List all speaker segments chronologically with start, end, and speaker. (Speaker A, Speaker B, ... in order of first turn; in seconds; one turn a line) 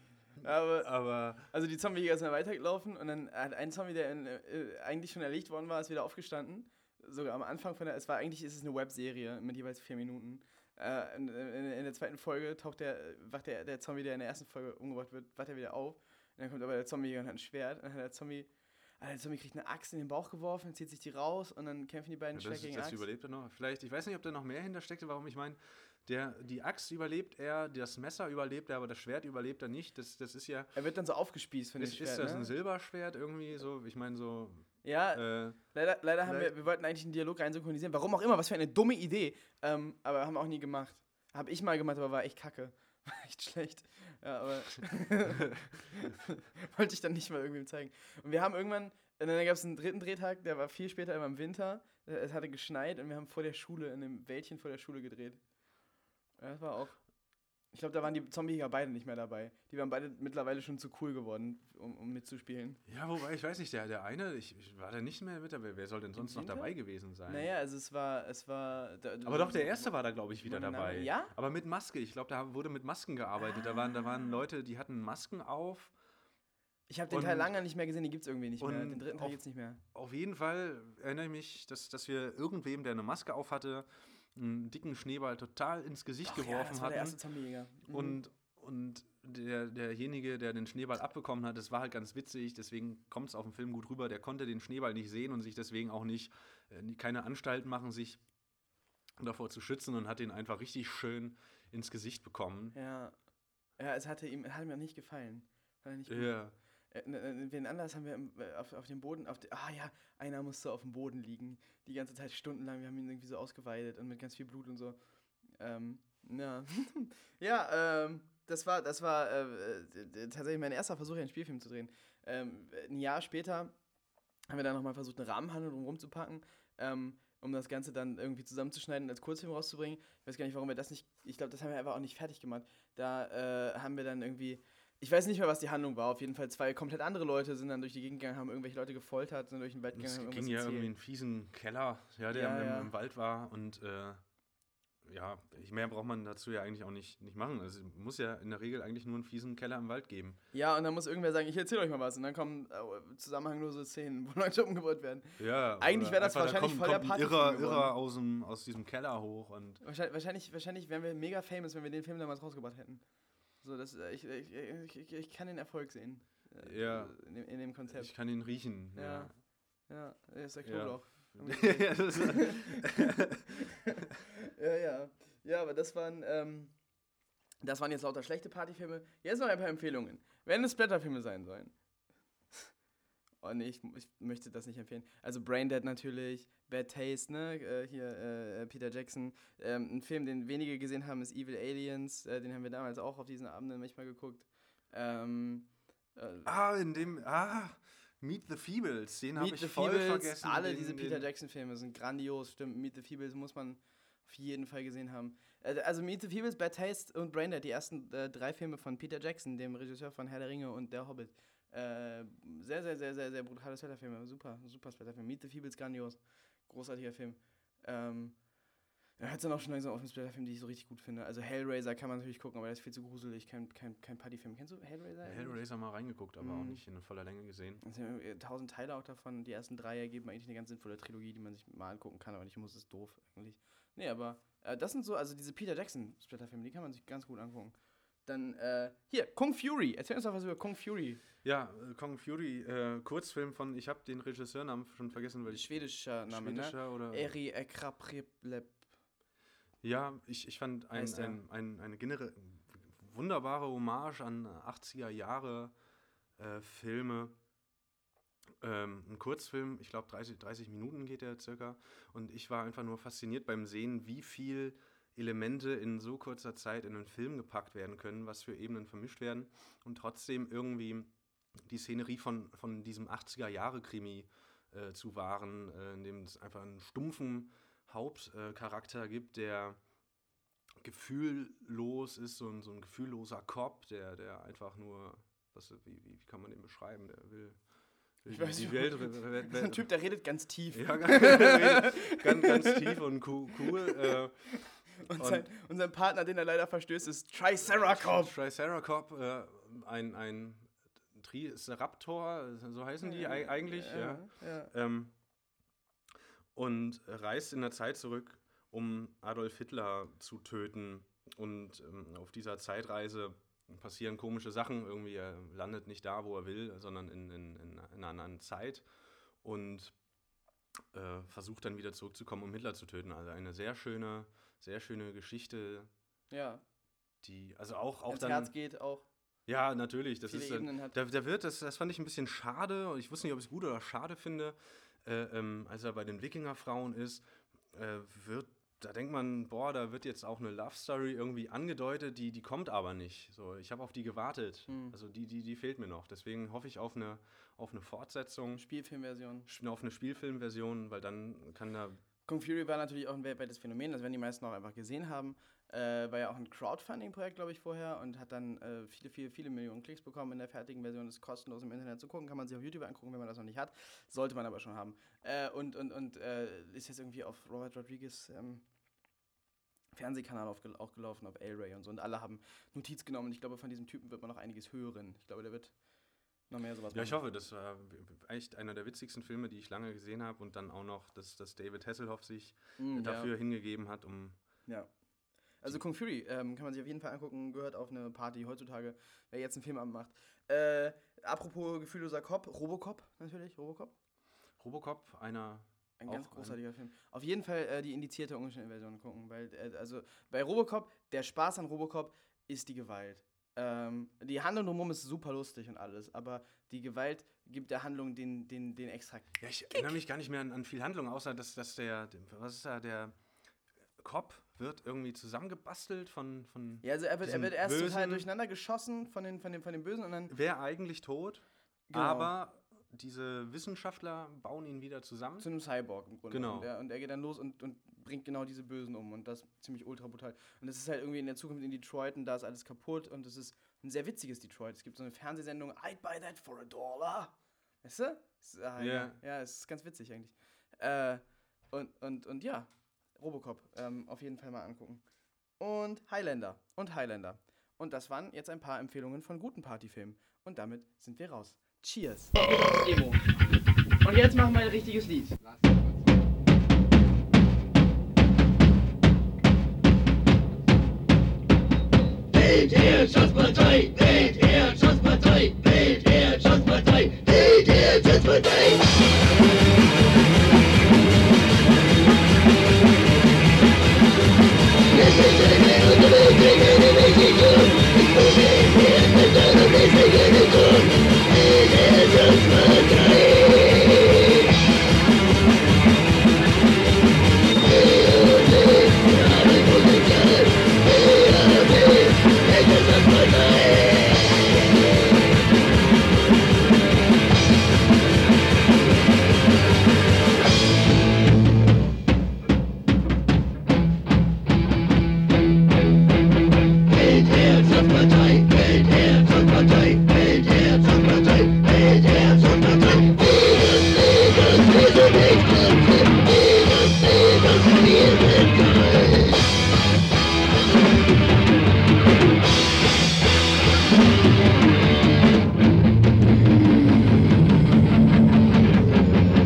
Speaker A: 0.4-23.0
Speaker B: 0.8-1.5
Speaker B: 22.3-30.7
Speaker A: 30.7-32.5
Speaker B: 31.8-35.6
Speaker A: 34.8-55.4
Speaker B: 36.2-36.5
Speaker A: 56.4-57.0
Speaker A: 57.7-62.8
Speaker B: 62.9-67.5
Speaker A: 66.2-66.7
Speaker A: 67.2-71.3
Speaker B: 69.2-75.9
Speaker A: 76.9-79.8
Speaker B: 77.1-77.5
Speaker B: 78.6-79.4
Speaker B: 79.9-87.2
Speaker A: 86.2-88.2
Speaker B: 87.9-98.2
Speaker B: 99.2-102.8
Speaker A: 102.7-103.2
Speaker A: 103.8-115.0
Speaker B: 106.1-106.5
Speaker A: 115.6-123.7
Speaker A: 124.5-140.9
Speaker B: 139.9-144.2
Speaker A: 142.3-142.9
Speaker B: 145.0-150.4
Speaker A: 150.5-157.9
Speaker B: 155.4-159.8
Speaker A: 159.8-168.3
Speaker B: 166.6-167.2
Speaker B: 167.9-169.3
Speaker A: 168.9-172.8
Speaker B: 170.6-173.4
Speaker A: 173.7-176.8
Speaker A: 177.6-181.7
Speaker A: 183.4-196.5
Speaker B: 196.4-201.2
Speaker A: 199.3-218.5
Speaker A: 219.2-225.6
Speaker B: 225.2-227.8
Speaker A: 226.4-226.8
Speaker A: 227.8-241.2
Speaker B: 241.4-247.3
Speaker A: 245.5-248.8
Speaker B: 249.8-255.7
Speaker A: 250.9-251.4
Speaker B: 256.4-257.4
Speaker B: 258.6-271.1
Speaker B: 271.6-279.8
Speaker B: 280.8-287.6
Speaker B: 288.2-289.9
Speaker A: 288.3-293.0
Speaker B: 290.7-295.4
Speaker A: 293.7-294.1
Speaker A: 295.0-298.3
Speaker B: 297.6-305.1
Speaker A: 303.0-304.7
Speaker B: 306.5-318.8
Speaker B: 319.4-319.9
Speaker B: 320.9-325.9
Speaker A: 326.3-326.6
Speaker B: 327.2-328.5
Speaker A: 328.1-329.0
Speaker B: 329.5-348.6
Speaker A: 330.3-330.9
Speaker A: 344.7-344.9
Speaker A: 348.5-349.5
Speaker B: 349.5-352.0
Speaker A: 352.2-368.6
Speaker A: 369.9-375.8
Speaker A: 376.5-377.2
Speaker B: 376.9-384.4
Speaker A: 382.8-383.3
Speaker A: 384.6-385.0
Speaker A: 385.5-393.9
Speaker B: 394.6-396.6
Speaker A: 396.0-409.9
Speaker B: 409.4-413.1
Speaker B: 414.0-418.3
Speaker A: 416.8-420.3
Speaker B: 420.3-425.5
Speaker A: 421.9-422.3
Speaker A: 425.4-445.0
Speaker B: 426.3-426.7
Speaker B: 438.8-439.2
Speaker A: 445.6-453.2
Speaker A: 454.0-455.3
Speaker C: 462.4-468.8
Speaker C: 474.9-484.2
Speaker C: 487.7-491.8
Speaker C: 492.5-494.3
Speaker C: 507.0-519.0